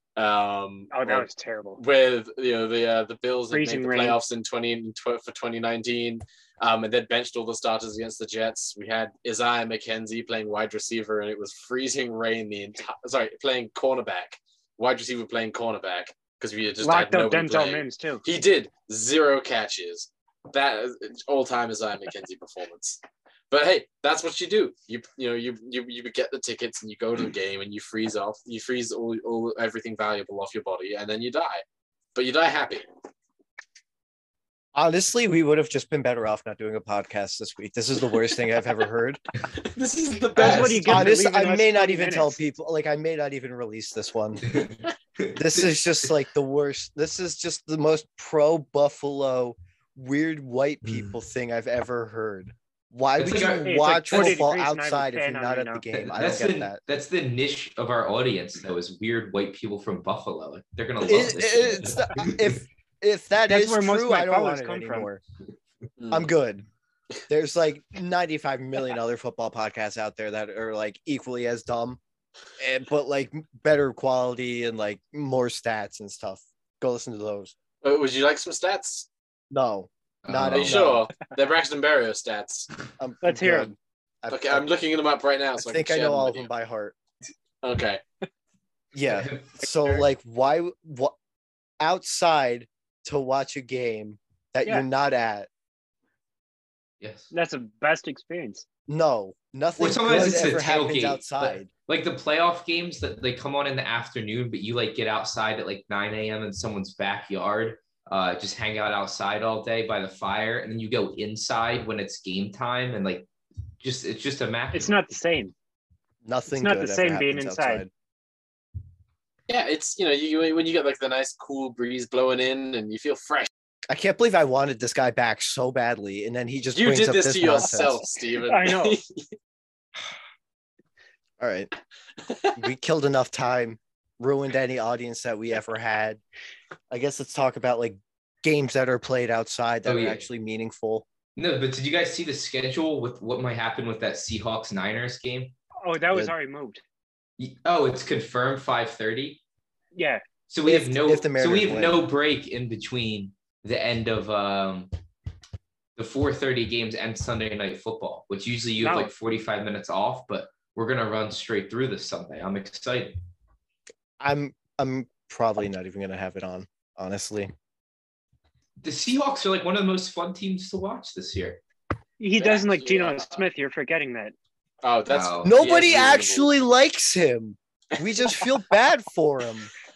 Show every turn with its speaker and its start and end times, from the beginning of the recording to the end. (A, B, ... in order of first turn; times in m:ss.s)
0:00.2-0:31.6 A
0:00.9-0:01.8 B
0:03.5-0:04.2 B
0:16.8-0:18.2 B
0:32.2-0:32.9 A
0:34.8-0:39.2 C
0:39.5-0:41.2 A
0:40.4-0:42.4 B
0:40.4-0:44.4 C
0:44.4-0:45.7 D
0:45.4-0:56.8 C
0:53.2-0:54.4 D
0:53.5-0:55.8 B
0:56.0-1:02.5 D
1:01.0-1:05.2 C
1:03.5-1:05.1 B
1:06.0-1:06.3 A
1:06.1-1:06.7 C
1:07.3-1:12.0 C
1:12.6-1:17.5 C
1:17.8-1:19.1 A
1:19.5-1:21.1 C
1:20.2-1:21.0 D
1:20.5-1:22.7 A
1:23.0-1:24.6 C
1:23.2-1:23.7 B
1:24.3-1:26.5 A
1:25.6-1:27.0 C
1:27.6-1:28.0 A
1:28.9-1:31.2 C
1:29.1-1:29.5 D
1:31.8-1:35.5 C
1:37.0-1:37.3 D
1:37.3-1:38.6 B
1:38.9-1:41.7 C
1:39.8-1:53.3 D
1:53.8-1:55.0 D
1:54.7-1:55.5 B
1:56.2-1:57.9 C
1:56.6-1:57.8 B
1:59.5-2:03.5 A
2:03.9-2:08.0 C
2:06.8-2:09.3 A
2:08.5-2:09.0 B
2:11.4-2:11.7 C
2:12.2-2:12.5 A
2:12.6-2:16.2 C
2:16.9-2:21.0 C
2:19.9-2:20.2 D
2:21.4-2:25.6 D
2:25.8-2:26.8 B
2:27.4-2:29.4 D
2:30.0-2:30.2 B
2:30.5-2:34.9 D
2:30.6-2:32.0 C
2:36.0-2:43.2 D
2:38.8-2:39.1 B
2:44.2-2:47.5 C
2:48.8-2:51.6 D
2:52.2-2:54.4 B
2:52.4-2:53.5 A
2:54.8-2:56.5 A
2:55.1-2:55.6 D
2:55.4-2:59.7 C